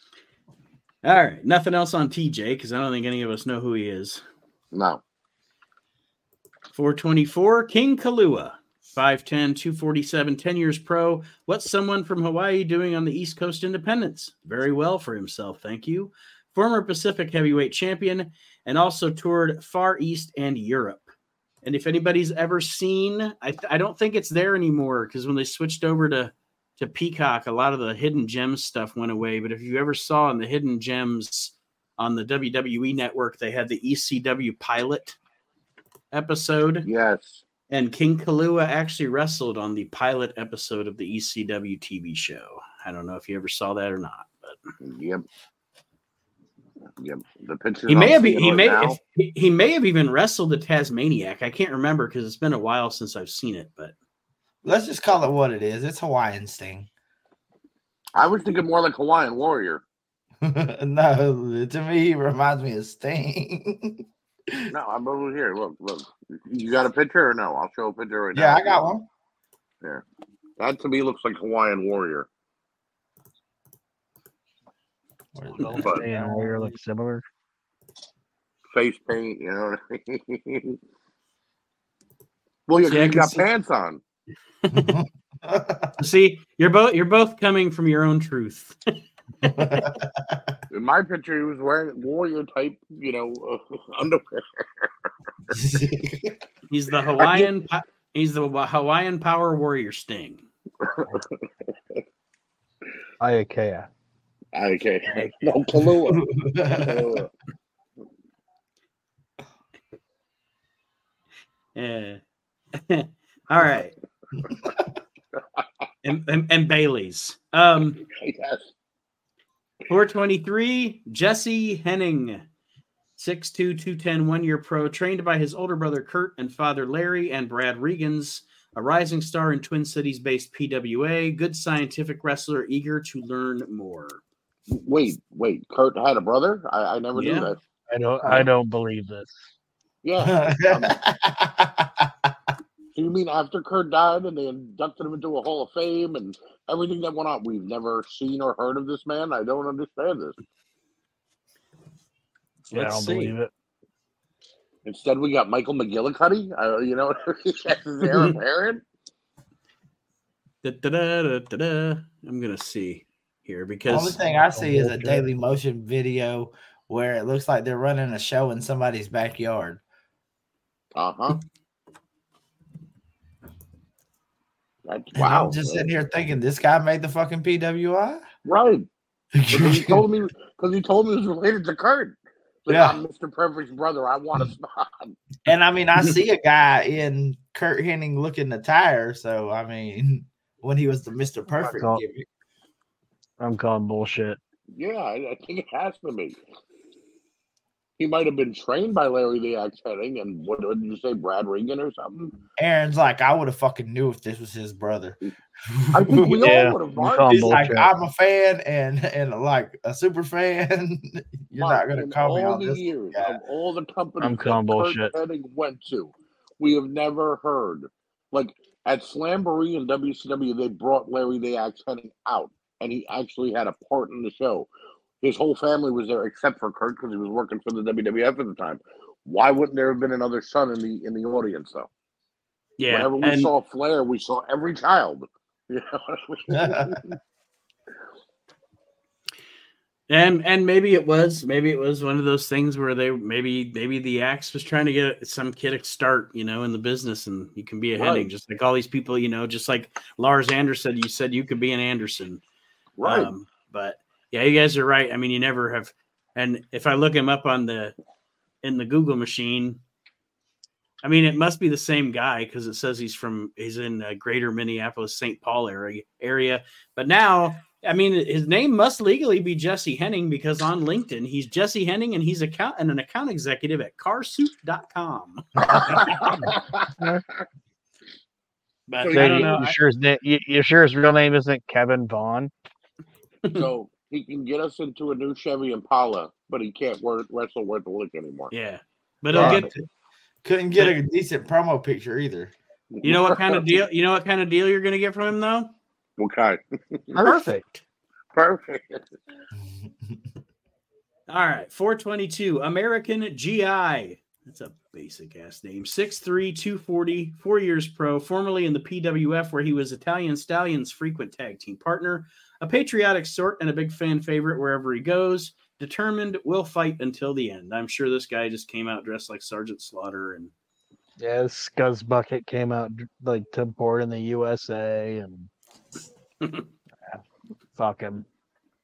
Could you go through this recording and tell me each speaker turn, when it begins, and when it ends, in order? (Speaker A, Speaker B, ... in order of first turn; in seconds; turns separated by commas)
Speaker A: 1.0-4.2, Speaker B: 4.7-5.0, Speaker A: 6.7-21.1, Speaker A: 21.6-35.2, Speaker A: 36.1-36.9, Speaker B: 36.8-37.4, Speaker A: 37.7-44.6, Speaker B: 44.8-45.3, Speaker B: 47.0-49.0, Speaker A: 47.9-53.9, Speaker C: 54.6-56.9, Speaker B: 58.1-59.8, Speaker C: 60.4-64.7, Speaker B: 64.7-68.8, Speaker C: 68.3-69.1, Speaker B: 70.6-72.3, Speaker C: 75.3-76.7, Speaker D: 75.6-77.2, Speaker B: 75.8-76.0, Speaker B: 78.7-80.8, Speaker B: 82.7-84.0, Speaker A: 82.8-83.5, Speaker A: 84.7-85.0, Speaker C: 84.7-86.0, Speaker A: 86.0-88.8, Speaker A: 89.4-89.9, Speaker C: 89.5-90.5, Speaker B: 90.7-94.9, Speaker C: 95.5-96.3, Speaker A: 96.7-100.5, Speaker B: 97.2-97.5, Speaker B: 100.8-102.0, Speaker D: 103.2-103.9, Speaker B: 104.5-107.3, Speaker C: 106.1-107.2, Speaker A: 111.8-112.2, Speaker A: 112.8-113.9, Speaker B: 115.4-115.6, Speaker A: 116.0-118.0, Speaker B: 118.0-118.7, Speaker A: 119.9-122.5, Speaker A: 123.2-134.2, Speaker B: 134.7-137.6, Speaker A: 137.1-137.5, Speaker D: 137.9-139.4, Speaker B: 140.0-140.9, Speaker C: 140.2-142.3, Speaker B: 142.9-150.4, Speaker A: 152.7-153.3, Speaker D: 152.7-153.5, Speaker B: 154.8-158.8, Speaker A: 158.1-158.3, Speaker A: 160.6-164.2, Speaker C: 163.9-169.8, Speaker D: 164.5-165.3, Speaker B: 170.9-171.4, Speaker B: 174.9-175.9, Speaker C: 175.2-178.2, Speaker B: 178.4-178.9, Speaker C: 179.4-180.0, Speaker B: 179.5-185.2, Speaker C: 182.7-183.0, Speaker C: 185.5-192.3, Speaker D: 191.6-192.0, Speaker D: 193.4-194.4, Speaker B: 194.8-196.4, Speaker B: 198.0-202.4, Speaker C: 202.6-206.7, Speaker B: 205.9-207.7, Speaker D: 206.4-207.9, Speaker C: 207.3-213.4, Speaker B: 211.6-224.7, Speaker D: 214.2-215.1, Speaker B: 225.2-231.9, Speaker A: 232.8-233.5, Speaker B: 232.9-237.2, Speaker C: 236.5-237.0, Speaker A: 240.1-252.4, Speaker B: 248.0-248.3, Speaker B: 253.0-253.3, Speaker A: 253.0-257.9, Speaker A: 258.6-259.8, Speaker A: 261.0-276.4, Speaker B: 275.7-277.1, Speaker D: 277.0-277.2, Speaker A: 278.9-279.8, Speaker B: 279.0-279.6, Speaker D: 279.1-282.5, Speaker B: 283.5-288.5, Speaker A: 288.5-289.7, Speaker C: 289.3-289.8, Speaker D: 289.4-289.6, Speaker C: 290.4-292.5, Speaker B: 293.0-293.6, Speaker A: 293.0-295.7, Speaker B: 296.2-297.1, Speaker D: 297.1-297.6, Speaker A: 297.2-297.8, Speaker B: 298.3-299.1, Speaker C: 299.6-300.2, Speaker A: 301.3-320.5, Speaker D: 321.2-325.5, Speaker D: 327.8-328.3